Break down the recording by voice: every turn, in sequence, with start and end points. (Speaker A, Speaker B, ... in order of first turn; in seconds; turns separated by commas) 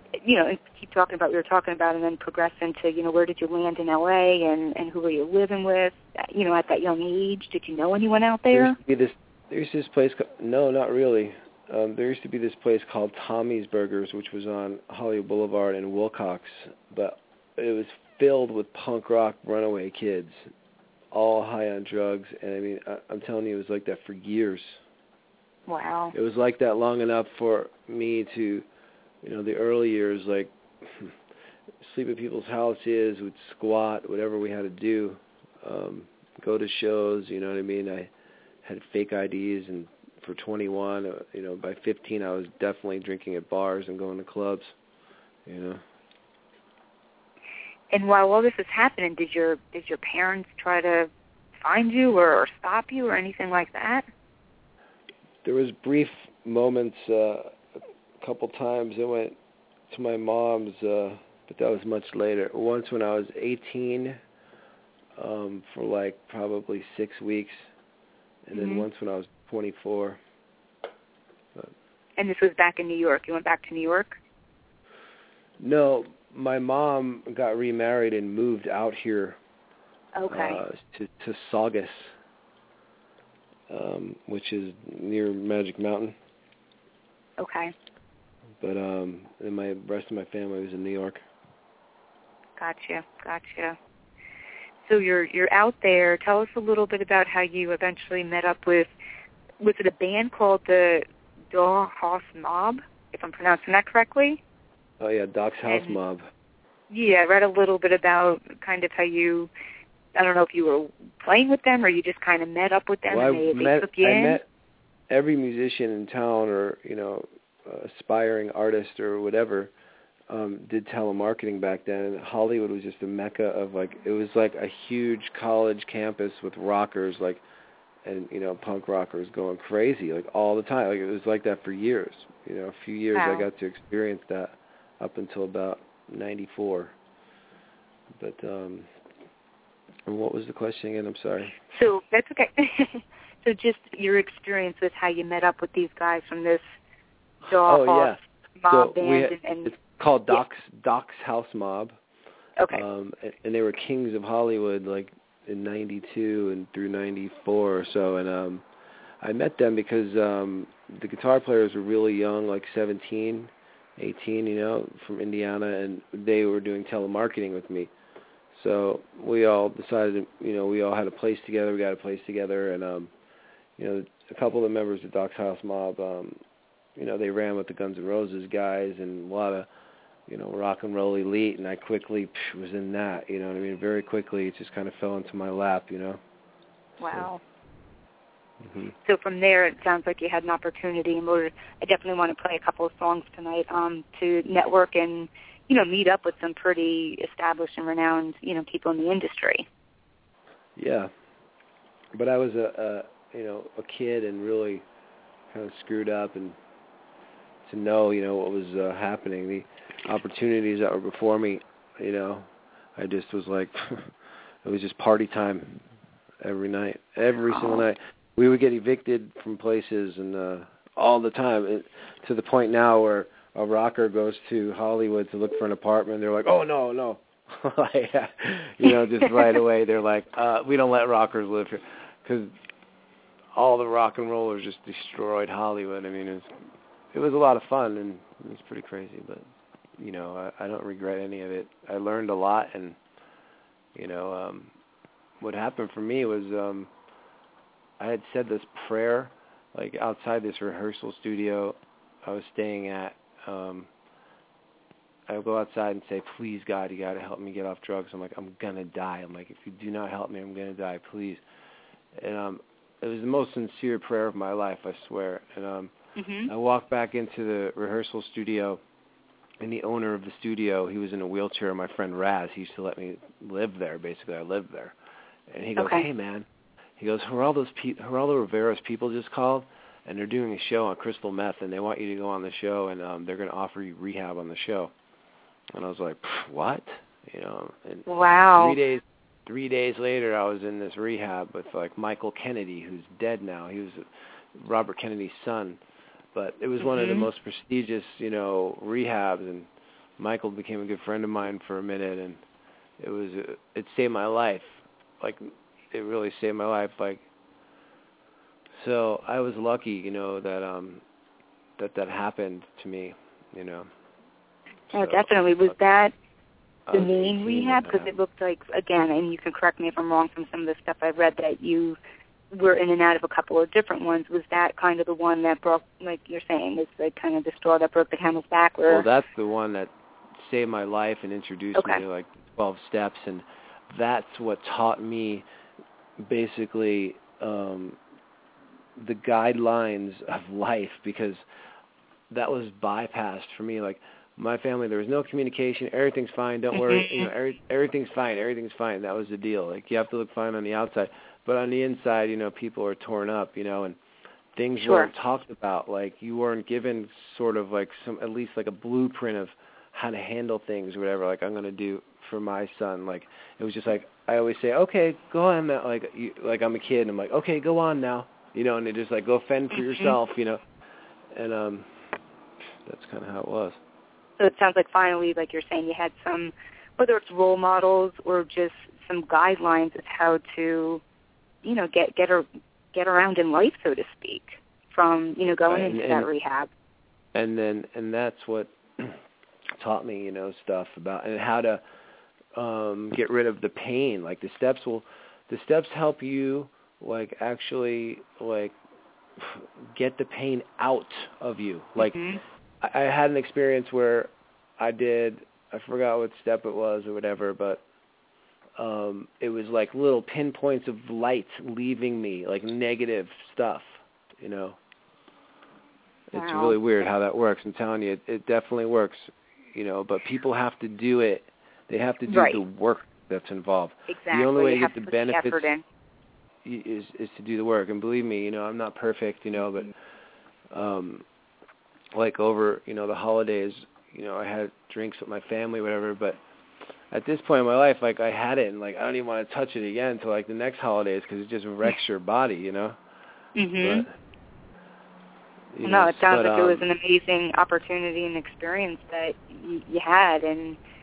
Speaker A: 0.2-8.8, Speaker B: 8.5-20.5, Speaker B: 21.1-24.8, Speaker A: 25.7-26.1, Speaker B: 26.1-28.7, Speaker B: 29.2-31.1, Speaker B: 31.8-38.1, Speaker B: 38.6-44.7, Speaker B: 45.5-45.8, Speaker A: 47.9-54.1, Speaker B: 55.4-57.6, Speaker B: 58.2-59.4, Speaker B: 59.9-64.2, Speaker B: 65.2-67.7, Speaker B: 68.5-70.2, Speaker A: 68.5-68.9, Speaker A: 72.2-74.2, Speaker B: 75.6-79.4, Speaker A: 80.2-80.6, Speaker B: 80.3-82.1, Speaker B: 83.7-86.2, Speaker A: 87.4-87.7, Speaker B: 88.6-91.2, Speaker A: 92.6-93.8, Speaker A: 94.9-98.9, Speaker A: 99.6-104.4, Speaker B: 105.0-106.3, Speaker A: 105.7-106.0, Speaker A: 106.9-109.5, Speaker A: 110.2-114.4, Speaker B: 113.1-114.5, Speaker B: 115.1-119.7, Speaker B: 120.3-127.4, Speaker B: 128.1-136.9, Speaker A: 133.1-133.5, Speaker B: 138.2-138.9, Speaker B: 140.1-141.6, Speaker A: 141.7-146.6, Speaker A: 147.5-149.8, Speaker B: 147.5-148.2, Speaker B: 148.7-152.0, Speaker A: 152.6-152.8, Speaker B: 152.7-158.7, Speaker B: 159.2-167.9, Speaker B: 168.5-173.1, Speaker B: 173.8-176.4, Speaker B: 177.0-179.7, Speaker B: 180.3-186.2, Speaker A: 187.0-187.4, Speaker B: 188.6-188.9, Speaker A: 189.1-199.7, Speaker B: 200.8-201.1, Speaker B: 202.1-204.8, Speaker B: 205.5-206.6, Speaker B: 207.7-214.1, Speaker B: 214.6-215.8, Speaker B: 216.4-232.6, Speaker A: 217.5-217.8, Speaker B: 233.5-236.6, Speaker B: 237.1-239.5, Speaker B: 240.0-243.0, Speaker B: 243.9-244.7, Speaker B: 245.4-246.9, Speaker B: 248.0-253.9, Speaker B: 255.3-261.4, Speaker B: 262.2-265.9, Speaker A: 266.2-266.5, Speaker B: 266.5-268.8, Speaker B: 269.6-275.0, Speaker B: 275.5-276.5, Speaker A: 275.8-276.1, Speaker B: 277.0-284.9, Speaker B: 285.7-295.8, Speaker A: 288.1-288.8, Speaker B: 296.3-302.4, Speaker A: 296.8-297.3, Speaker B: 303.0-307.2, Speaker B: 308.8-311.0, Speaker B: 311.8-313.9, Speaker B: 314.9-315.7, Speaker A: 314.9-316.1, Speaker B: 316.9-318.1, Speaker A: 316.9-322.0, Speaker A: 322.5-329.1, Speaker B: 328.9-335.5, Speaker A: 331.8-332.0, Speaker B: 336.2-338.0, Speaker B: 339.0-341.4, Speaker B: 342.3-354.0, Speaker A: 346.7-347.3, Speaker B: 354.6-370.6, Speaker A: 354.8-355.1, Speaker B: 371.3-371.9, Speaker B: 372.9-373.8, Speaker A: 374.4-381.0, Speaker A: 381.6-386.7, Speaker B: 385.7-386.3, Speaker B: 387.3-389.2, Speaker B: 389.8-391.8, Speaker B: 392.5-398.8, Speaker B: 399.4-402.2, Speaker A: 402.0-402.4, Speaker B: 402.8-407.8, Speaker B: 408.8-414.8, Speaker B: 416.3-425.7, Speaker A: 416.3-416.8, Speaker A: 422.3-422.6, Speaker A: 424.1-425.8, Speaker B: 426.6-429.9, Speaker B: 430.7-431.2, Speaker B: 432.1-436.4, Speaker B: 437.1-443.0, Speaker A: 443.6-444.1, Speaker B: 443.8-444.1, Speaker B: 445.7-446.9, Speaker A: 445.9-450.8